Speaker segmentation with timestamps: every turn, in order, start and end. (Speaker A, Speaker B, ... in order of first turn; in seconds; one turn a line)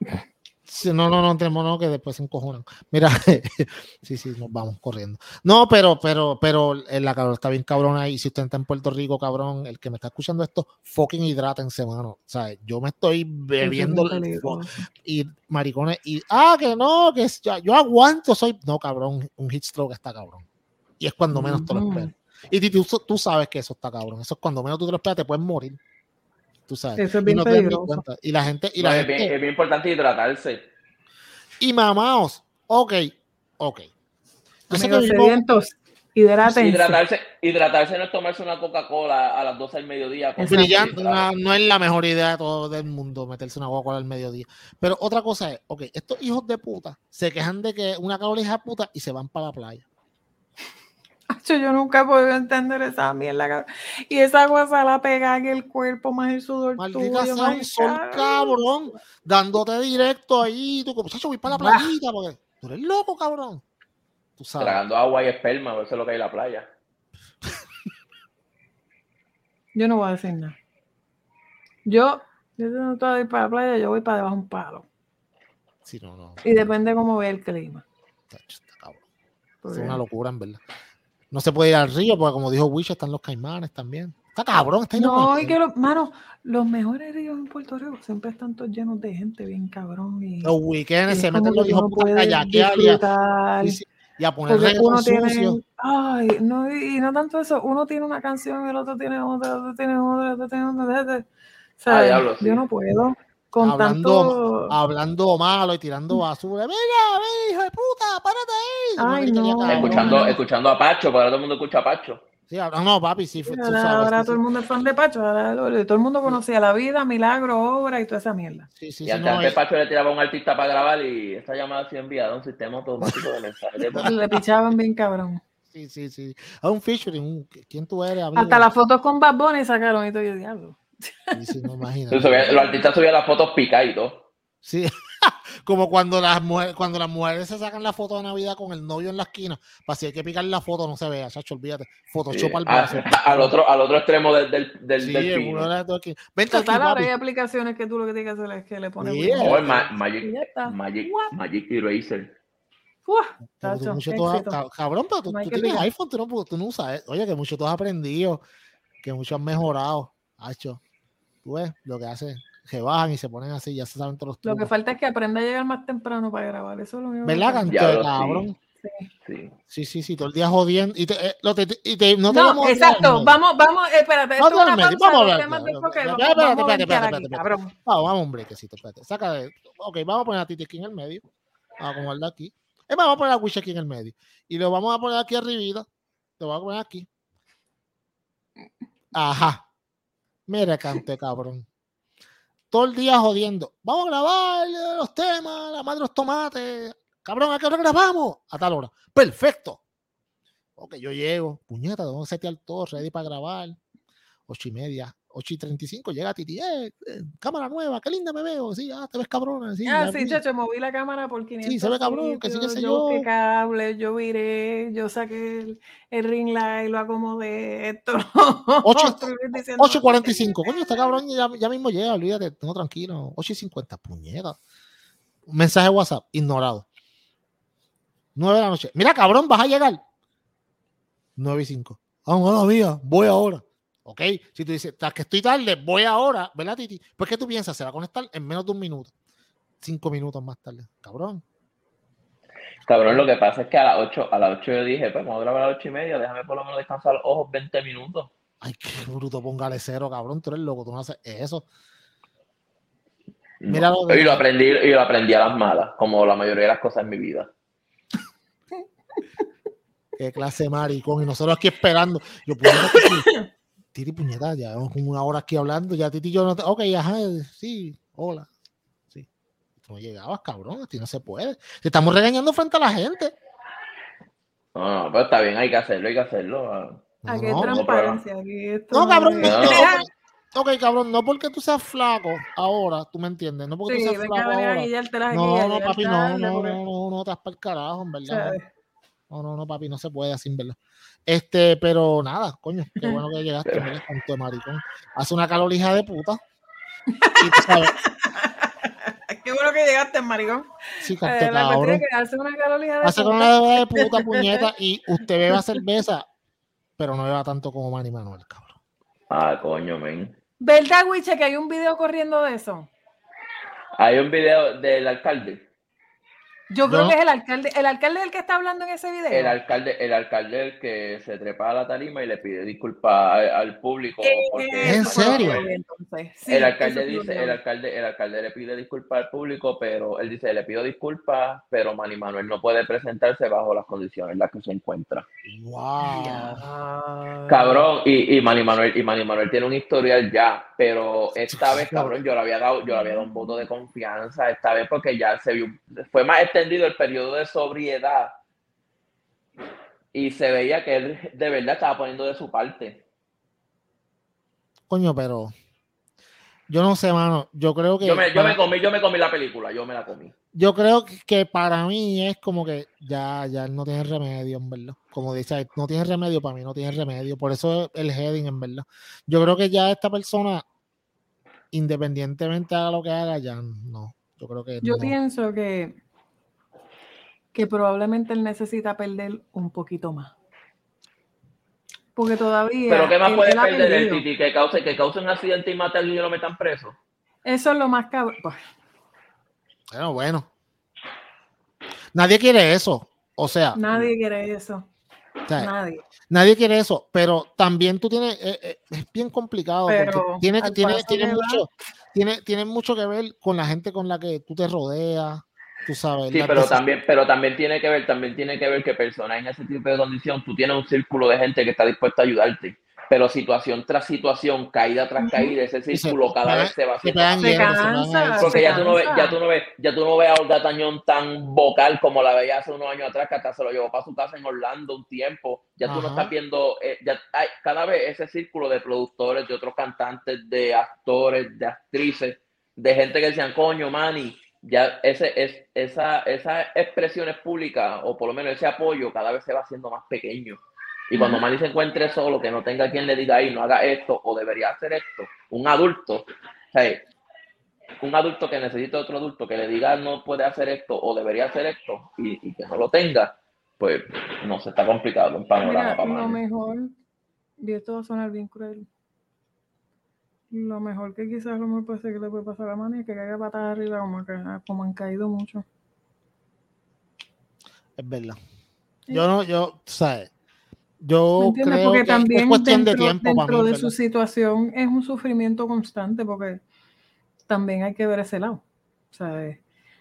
Speaker A: 0.7-20.4
Speaker B: 13.6-14.8
Speaker A: 21.0-25.8
Speaker B: 21.3-22.1
Speaker A: 26.7-29.3
Speaker B: 27.0-28.0
Speaker C: 28.8-30.6
Speaker A: 31.6-33.9
Speaker B: 34.7-37.0
Speaker A: 34.7-35.4
Speaker C: 36.5-41.2
Speaker B: 40.4-40.9
Speaker A: 40.5-49.9
Speaker B: 51.3-58.6
Speaker A: 56.8-63.6
Speaker B: 61.5-61.9
Speaker A: 64.4-64.8
Speaker C: 64.6-66.7
Speaker B: 69.8-70.6
Speaker B: 71.9-74.9
Speaker A: 75.8-76.7
Speaker B: 76.4-77.8
Speaker A: 78.3-79.0
Speaker B: 79.6-80.0
Speaker A: 79.7-80.6
Speaker A: 81.3-85.6
Speaker B: 85.0-90.5
Speaker A: 90.4-93.0
Speaker B: 91.1-93.8
Speaker A: 93.6-95.6
Speaker B: 94.5-101.3
Speaker B: 101.8-104.8
Speaker C: 101.9-102.6
Speaker A: 103.6-110.4
Speaker B: 109.0-110.4
Speaker C: 109.7-112.2
Speaker A: 112.5-114.4
Speaker B: 113.4-118.7
Speaker A: 118.8-119.6
Speaker C: 119.0-124.2
Speaker B: 124.0-125.4
Speaker A: 125.7-128.7
Speaker B: 128.3-131.7
Speaker A: 131.3-132.5
Speaker C: 132.1-134.3
Speaker B: 132.4-132.9
Speaker A: 134.6-143.5
Speaker C: 142.3-145.7
Speaker A: 145.0-147.1
Speaker B: 146.5-151.3
Speaker A: 149.0-149.7
Speaker C: 149.4-152.3
Speaker B: 153.1-154.6
Speaker A: 153.6-158.4
Speaker B: 155.3-155.9
Speaker A: 159.0-160.8
Speaker A: 161.4-164.7
Speaker B: 164.4-167.7
Speaker A: 167.2-168.6
Speaker C: 167.7-168.5
Speaker B: 168.8-169.1
Speaker C: 169.2-169.6
Speaker A: 169.7-173.4
Speaker B: 172.3-177.7
Speaker A: 174.4-181.2
Speaker A: 181.8-185.9
Speaker A: 186.4-187.1
Speaker A: 189.1-189.7
Speaker A: 190.5-191.7
Speaker A: 192.7-199.8
Speaker A: 200.8-203.8
Speaker A: 204.5-210.4
Speaker B: 209.8-221.2
Speaker A: 211.6-213.3
Speaker A: 218.8-224.6
Speaker A: 225.5-226.9
Speaker A: 228.3-230.0
Speaker A: 231.4-239.1
Speaker A: 239.8-241.4
Speaker C: 242.9-248.3
Speaker A: 248.6-251.7
Speaker C: 253.6-257.5
Speaker A: 253.7-254.4
Speaker A: 260.2-263.3
Speaker B: 262.6-263.5
Speaker A: 263.9-268.5
Speaker A: 269.8-273.4
Speaker C: 274.8-278.2
Speaker A: 277.2-277.8
Speaker B: 277.3-280.1
Speaker A: 278.9-288.6
Speaker C: 279.4-279.9
Speaker B: 283.9-286.8
Speaker B: 288.3-288.7
Speaker A: 289.3-290.8
Speaker A: 291.3-296.4
Speaker B: 297.1-300.7
Speaker A: 297.4-298.0
Speaker A: 301.0-302.0
Speaker B: 301.2-304.7
Speaker A: 303.0-306.3
Speaker B: 305.5-305.8
Speaker A: 307.0-308.8
Speaker C: 309.3-310.4
Speaker B: 310.6-312.9
Speaker C: 314.0-315.7
Speaker B: 316.7-319.6
Speaker A: 316.9-317.1
Speaker C: 319.3-325.6
Speaker B: 324.2-327.6
Speaker A: 324.8-325.6
Speaker C: 326.5-335.3
Speaker A: 335.5-336.6
Speaker B: 336.0-337.9
Speaker C: 337.5-348.3
Speaker A: 341.5-342.2
Speaker B: 342.9-343.5
Speaker C: 350.1-353.0
Speaker A: 354.9-355.5
Speaker A: 356.7-358.6
Speaker C: 358.0-360.3
Speaker A: 360.5-370.6
Speaker A: 371.7-375.1
Speaker B: 374.8-376.0
Speaker B: 377.5-380.3
Speaker B: 382.2-384.2
Speaker C: 382.9-387.0
Speaker B: 387.4-388.6
Speaker A: 389.9-390.5
Speaker A: 392.1-394.1
Speaker B: 393.8-394.9
Speaker A: 395.5-395.7
Speaker B: 395.6-396.0
Speaker A: 396.3-406.8
Speaker B: 399.9-401.7
Speaker C: 406.3-417.7
Speaker B: 415.2-415.6
Speaker A: 415.9-418.9
Speaker B: 417.4-419.4
Speaker C: 418.4-447.0
Speaker A: 425.9-426.3
Speaker B: 441.1-441.4
Speaker C: 448.0-456.4
Speaker B: 455.6-457.0
Speaker B: 457.6-458.9
Speaker B: 460.5-465.6
Speaker A: 468.0-468.4
Speaker A: 469.1-470.3
Speaker A: 471.0-473.9
Speaker B: 471.4-476.6
Speaker B: 477.5-479.6